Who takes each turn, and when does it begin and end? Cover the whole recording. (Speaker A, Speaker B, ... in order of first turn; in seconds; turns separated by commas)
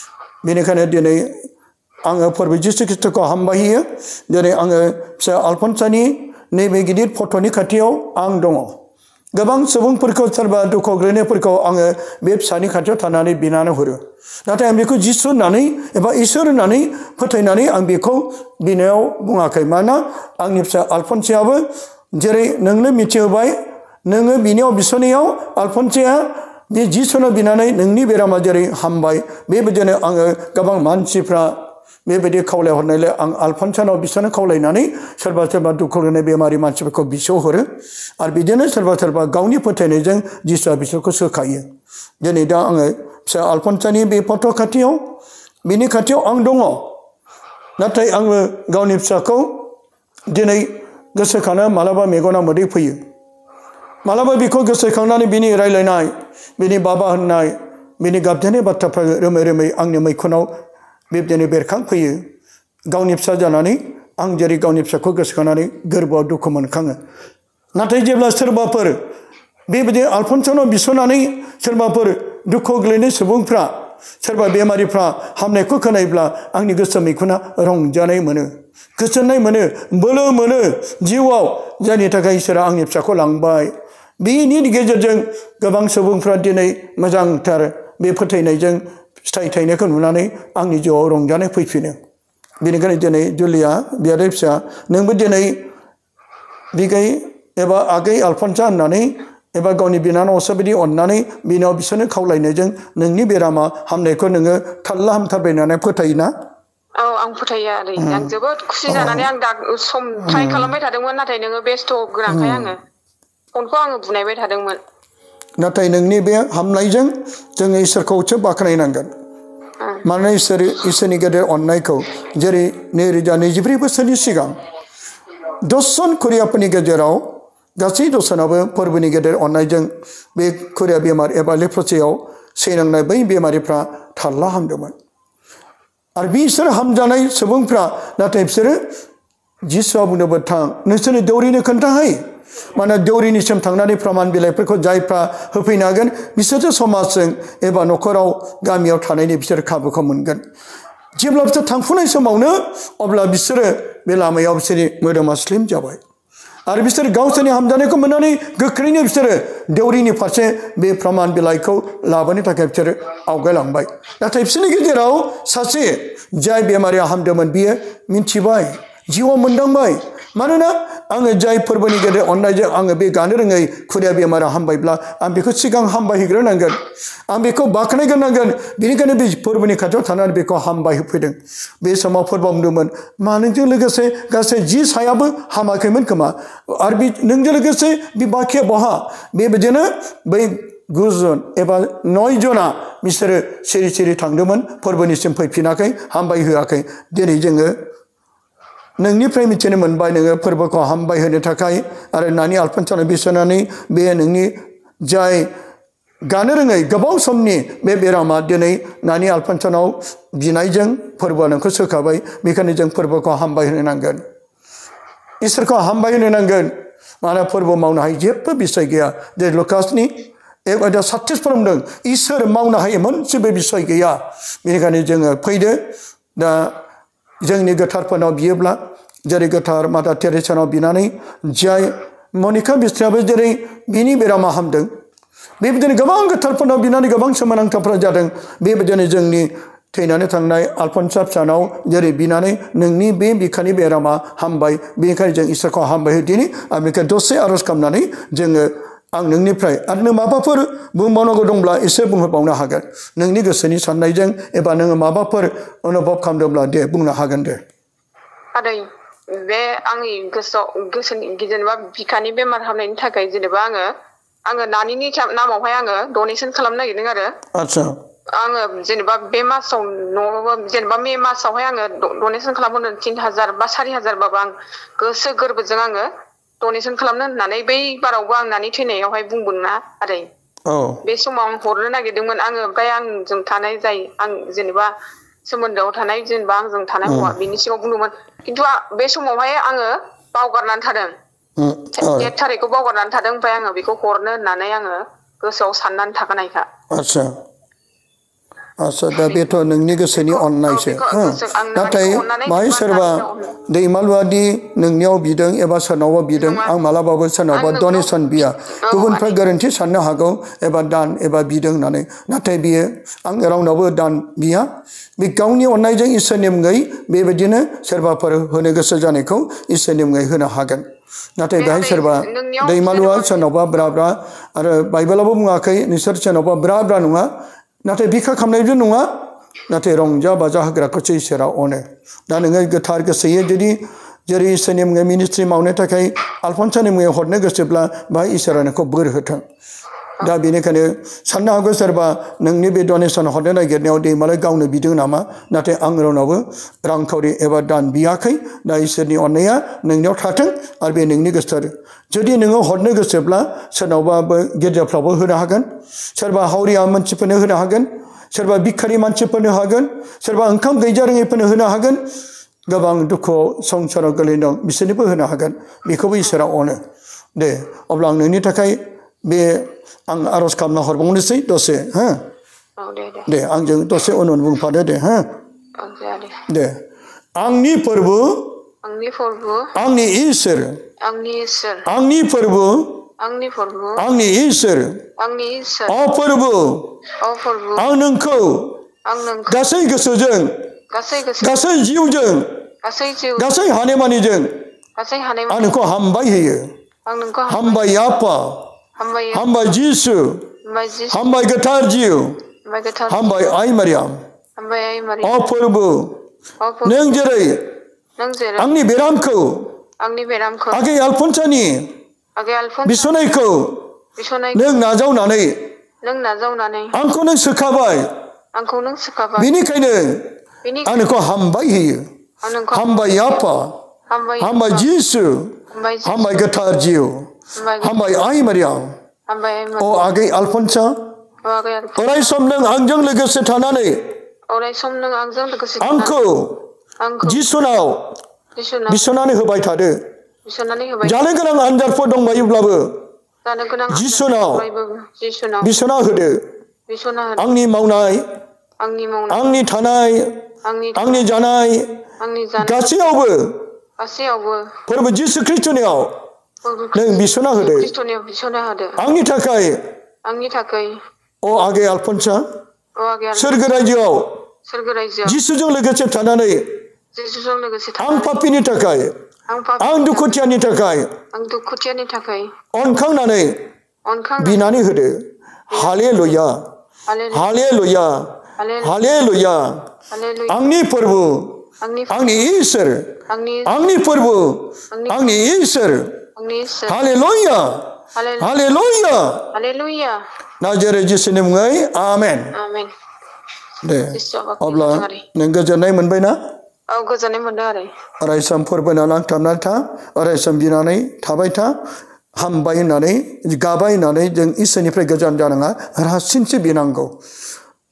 Speaker A: 0.4-1.3, Speaker A: 2.0-8.8, Speaker A: 9.3-21.6, Speaker A: 22.1-37.6, Speaker A: 38.2-41.7, Speaker A: 42.2-45.1, Speaker A: 45.6-46.9, Speaker A: 47.8-49.7, Speaker A: 50.3-53.0, Speaker A: 54.0-60.5, Speaker A: 61.1-62.3, Speaker A: 62.9-67.0, Speaker A: 67.7-69.0, Speaker A: 69.7-92.0, Speaker A: 92.6-95.6, Speaker A: 96.7-106.3, Speaker B: 107.0-112.8, Speaker A: 108.0-108.3, Speaker A: 108.9-109.3, Speaker A: 110.2-110.7, Speaker A: 112.3-112.7, Speaker B: 113.5-114.8, Speaker A: 115.6-119.1, Speaker A: 120.0-124.6, Speaker A: 125.6-134.9, Speaker A: 136.2-138.8, Speaker A: 139.7-142.2, Speaker A: 142.7-150.4, Speaker A: 151.2-156.0, Speaker A: 156.7-197.7, Speaker A: 199.0-205.5, Speaker A: 206.2-214.2, Speaker A: 215.4-225.8, Speaker A: 226.3-226.8, Speaker A: 227.4-234.9, Speaker A: 235.6-257.6, Speaker B: 258.5-263.9, Speaker B: 264.5-267.3, Speaker A: 267.5-267.9, Speaker B: 268.3-276.1, Speaker B: 276.6-280.3, Speaker A: 280.7-281.0, Speaker B: 281.0-284.9, Speaker B: 285.4-291.1, Speaker A: 287.1-287.4, Speaker A: 291.6-292.3, Speaker B: 291.9-296.7, Speaker A: 296.9-297.3, Speaker A: 298.8-320.9, Speaker B: 299.1-299.4, Speaker B: 300.1-303.6, Speaker B: 306.4-306.8, Speaker B: 307.5-309.4, Speaker A: 321.4-327.3, Speaker B: 321.6-323.5, Speaker A: 327.8-329.1, Speaker A: 329.7-339.4, Speaker A: 340.2-362.1, Speaker A: 362.7-366.8, Speaker A: 367.4-372.2, Speaker B: 372.8-373.3, Speaker A: 373.3-375.3, Speaker B: 375.8-376.4, Speaker A: 376.5-376.8, Speaker A: 377.4-378.6, Speaker B: 378.8-379.7, Speaker A: 379.7-380.8, Speaker B: 381.0-381.9, Speaker A: 381.9-383.0, Speaker B: 383.2-384.0, Speaker A: 384.0-385.0, Speaker B: 385.2-386.0, Speaker A: 385.9-386.9, Speaker B: 387.2-387.9, Speaker A: 387.8-388.8, Speaker B: 389.1-389.6, Speaker A: 389.5-390.6, Speaker B: 390.9-391.8, Speaker A: 391.4-392.6, Speaker B: 392.8-393.5, Speaker A: 393.4-394.6, Speaker B: 395.0-395.7, Speaker A: 395.5-396.7, Speaker B: 397.1-397.8, Speaker A: 397.5-398.7, Speaker B: 399.0-399.5, Speaker A: 399.3-400.5, Speaker B: 400.6-401.3, Speaker A: 401.1-402.4, Speaker B: 402.6-403.4, Speaker A: 403.1-404.1, Speaker B: 404.6-405.5, Speaker A: 405.2-406.2, Speaker B: 406.6-407.2, Speaker A: 406.8-407.7, Speaker B: 408.2-408.7, Speaker A: 408.6-409.7, Speaker B: 410.0-410.8, Speaker A: 410.7-411.9, Speaker B: 412.4-413.3, Speaker A: 412.8-413.9, Speaker B: 414.2-414.8, Speaker A: 414.5-415.7, Speaker B: 416.0-416.9, Speaker A: 416.9-418.1, Speaker B: 418.5-419.5, Speaker A: 419.4-420.3, Speaker B: 420.6-421.2, Speaker A: 420.8-422.1, Speaker B: 422.4-423.4, Speaker A: 422.7-423.8, Speaker B: 424.1-424.9, Speaker A: 424.4-427.3, Speaker B: 425.7-426.4, Speaker B: 427.5-428.1, Speaker A: 427.8-428.9, Speaker B: 429.3-430.1, Speaker A: 429.8-430.9, Speaker B: 431.4-432.4, Speaker A: 431.9-434.1, Speaker B: 434.5-436.2, Speaker A: 435.8-436.6, Speaker B: 437.0-437.4, Speaker A: 437.2-438.1, Speaker B: 438.6-439.0, Speaker A: 438.9-439.9, Speaker B: 440.4-441.2, Speaker A: 441.0-443.0, Speaker B: 443.4-445.7, Speaker A: 443.9-444.6, Speaker A: 445.6-446.4, Speaker B: 446.9-447.5, Speaker A: 447.4-448.3, Speaker B: 448.8-449.5, Speaker A: 449.3-450.4, Speaker B: 450.6-451.3, Speaker A: 450.9-452.0, Speaker B: 452.2-452.8, Speaker A: 452.6-453.7, Speaker B: 454.0-454.8, Speaker A: 454.9-456.2, Speaker B: 456.6-459.0, Speaker A: 456.9-457.9, Speaker A: 459.0-459.8, Speaker B: 460.2-461.0, Speaker A: 461.4-462.4, Speaker B: 463.0-463.9, Speaker A: 463.3-464.4, Speaker B: 464.6-465.4, Speaker A: 465.2-466.8, Speaker B: 467.1-468.4, Speaker A: 468.0-469.1, Speaker B: 469.5-470.4, Speaker A: 469.8-471.1, Speaker B: 471.3-472.5, Speaker A: 472.7-473.6, Speaker B: 474.1-474.8, Speaker A: 474.4-476.6, Speaker B: 477.1-477.5, Speaker A: 477.3-479.9, Speaker B: 478.6-478.9, Speaker B: 480.1-480.6, Speaker A: 480.5-486.2, Speaker B: 481.8-482.3, Speaker B: 483.3-483.7, Speaker B: 484.9-485.4, Speaker B: 486.4-487.0, Speaker A: 486.9-489.5, Speaker B: 488.1-488.7, Speaker B: 489.5-490.2, Speaker A: 490.6-492.5, Speaker B: 492.5-492.9, Speaker A: 493.8-496.4, Speaker B: 494.1-495.2, Speaker B: 496.9-497.9, Speaker A: 498.2-501.8, Speaker A: 502.4-507.1